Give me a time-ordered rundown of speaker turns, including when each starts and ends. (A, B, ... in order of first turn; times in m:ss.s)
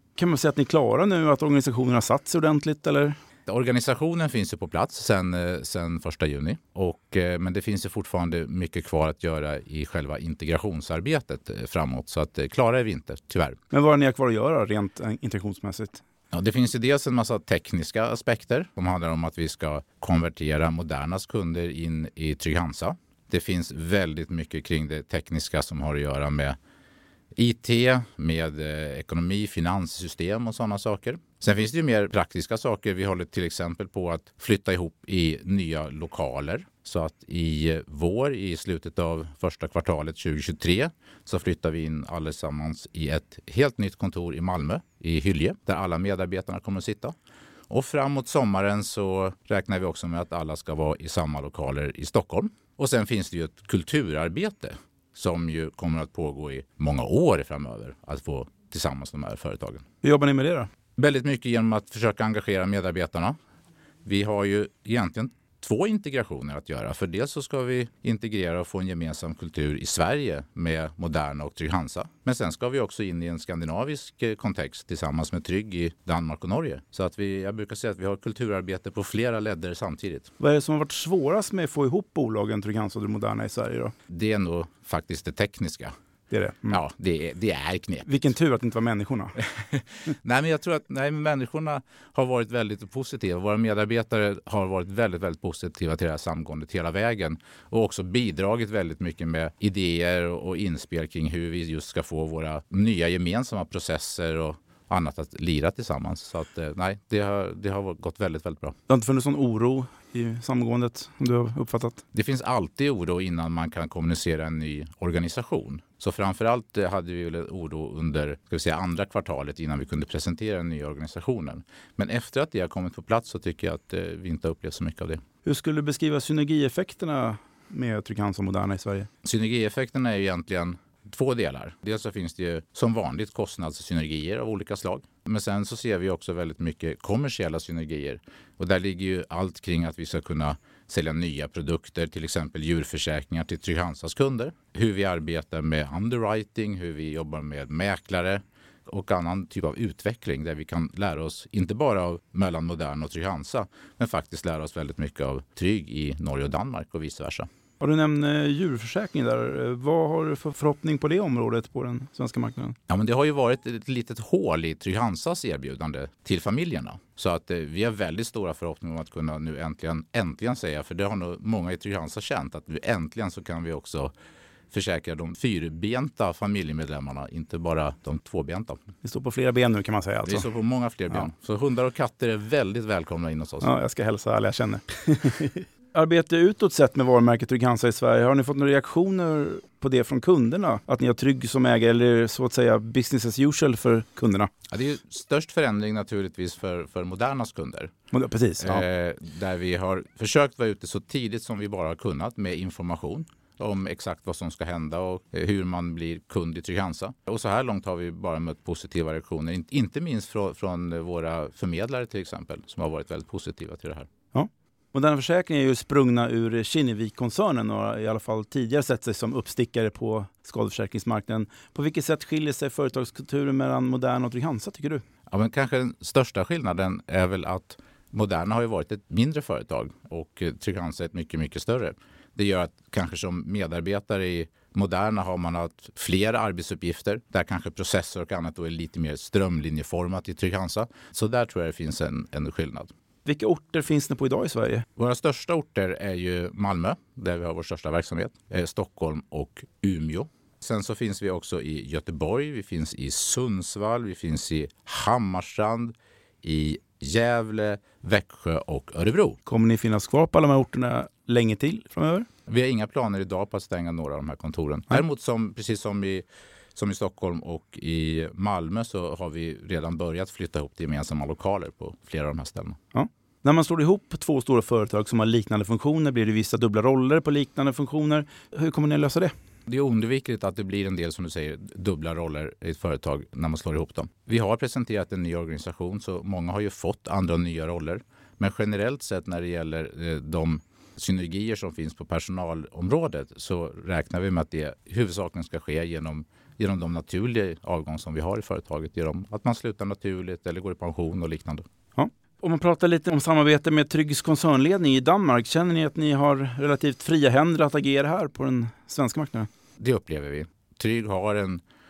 0:00.2-0:03.2 A
0:03.5-0:13.6 B
0:13.7-0:16.0 A
0:16.3-0:26.6 B
0:27.4-0:47.1 B
0:47.7-0:59.8 B
1:00.0-1:00.7 A
1:01.0-1:03.3 B
1:04.0-1:20.3 B
1:20.4-1:23.9 A
1:24.1-1:25.9 B
1:26.3-1:26.8 A
1:26.7-1:28.1 B
1:28.0-1:29.4 A
1:29.4-1:48.8 B
1:48.9-1:52.0 A
1:52.1-2:05.2 B
2:05.4-2:09.1 A
2:09.2-2:37.5 B
2:37.8-2:42.8 A
2:42.9-2:54.1 B
2:54.7-2:58.8 B
2:59.0-3:00.5 A
3:00.2-3:03.7 B
3:03.6-3:14.5 A
3:14.7-3:17.9 B
3:18.1-3:18.8 A
3:18.6-3:34.1 B
3:34.3-3:45.0 A
3:45.3-4:02.9 B
4:03.2-4:04.8 A
4:05.0-4:19.4 B
4:19.4-4:22.2 A
4:22.5-4:26.2 B
4:26.7-4:32.8 B
4:32.9-4:39.3 A
4:39.7-5:01.6 B
5:01.9-5:09.5 A
5:09.8-5:11.6 B